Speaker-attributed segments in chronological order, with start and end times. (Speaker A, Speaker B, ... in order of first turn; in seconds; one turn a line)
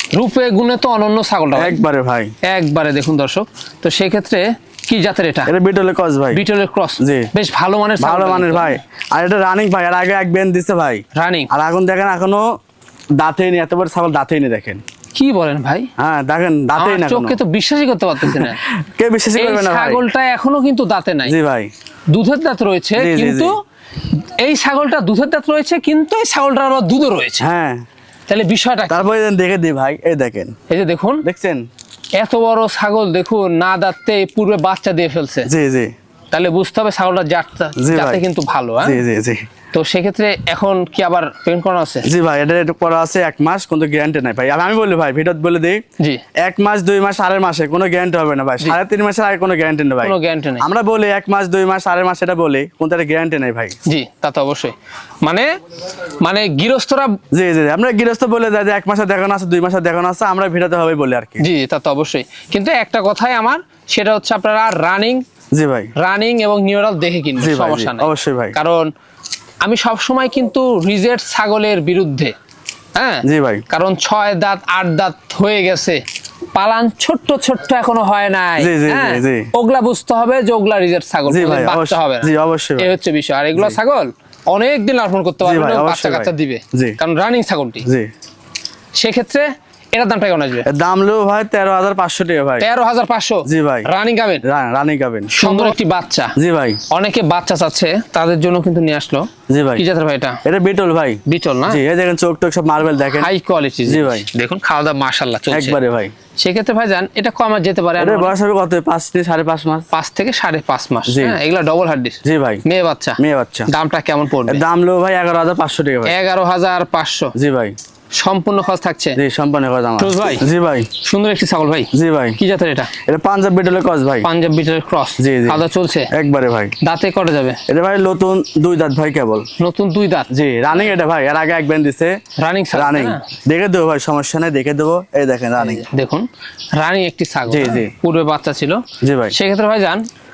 Speaker A: 0.1-1.8
Speaker B: 1.6-2.3
Speaker A: 2.4-5.5
Speaker B: 5.5-6.4
Speaker A: 6.3-8.8
Speaker B: 7.0-7.3
Speaker B: 8.0-12.5
Speaker A: 11.2-11.5
Speaker B: 13.2-14.8
Speaker A: 15.2-15.9
Speaker B: 16.0-17.4
Speaker A: 16.8-18.6
Speaker B: 18.2-20.0
Speaker A: 19.4-21.4
Speaker B: 21.2-21.7
Speaker A: 22.1-23.6
Speaker B: 23.0-23.5
Speaker A: 24.1-27.4
Speaker B: 27.4-27.8
Speaker A: 28.3-29.0
Speaker B: 28.9-30.5
Speaker A: 30.7-31.2
Speaker B: 31.2-31.6
Speaker A: 32.2-35.5
Speaker B: 35.5-35.9
Speaker A: 36.3-39.0
Speaker B: 37.8-38.2
Speaker B: 38.8-39.4
Speaker A: 39.7-42.1
Speaker B: 42.0-45.8
Speaker B: 46.4-53.8
Speaker A: 50.0-50.7
Speaker A: 53.9-55.5
Speaker A: 56.2-57.2
Speaker B: 57.3-61.5
Speaker A: 61.4-65.2
Speaker B: 65.5-65.9
Speaker A: 66.0-68.9
Speaker B: 67.4-68.6
Speaker A: 69.6-72.3
Speaker A: 73.0-76.0
Speaker B: 73.2-73.6
Speaker A: 76.5-87.9
Speaker B: 78.6-79.5
Speaker B: 81.3-82.9
Speaker B: 85.4-87.0
Speaker B: 87.8-88.1
Speaker A: 89.0-90.7
Speaker B: 90.7-92.7
Speaker A: 92.6-94.4
Speaker B: 93.5-93.9
Speaker B: 94.4-95.8
Speaker A: 95.3-96.3
Speaker B: 96.4-96.8
Speaker A: 96.9-100.4
Speaker B: 99.5-99.8
Speaker B: 100.5-103.3
Speaker A: 101.2-101.8
Speaker A: 103.2-105.8
Speaker B: 103.9-104.3
Speaker B: 105.5-106.1
Speaker A: 106.4-108.3
Speaker B: 108.0-109.9
Speaker A: 109.9-114.6
Speaker B: 111.1-111.4
Speaker B: 112.2-112.6
Speaker B: 113.2-113.7
Speaker B: 114.5-116.1
Speaker A: 116.1-117.3
Speaker B: 117.4-117.8
Speaker A: 118.2-119.2
Speaker B: 119.2-120.9
Speaker A: 120.0-120.5
Speaker A: 121.0-122.9
Speaker B: 121.9-122.4
Speaker B: 123.1-124.3
Speaker A: 124.2-126.1
Speaker B: 125.2-126.8
Speaker A: 126.8-127.6
Speaker B: 127.7-129.5
Speaker A: 129.6-130.3
Speaker B: 130.3-132.2
Speaker A: 132.4-133.2
Speaker B: 132.7-135.8
Speaker A: 135.6-140.1
Speaker B: 137.5-137.9
Speaker B: 139.0-139.3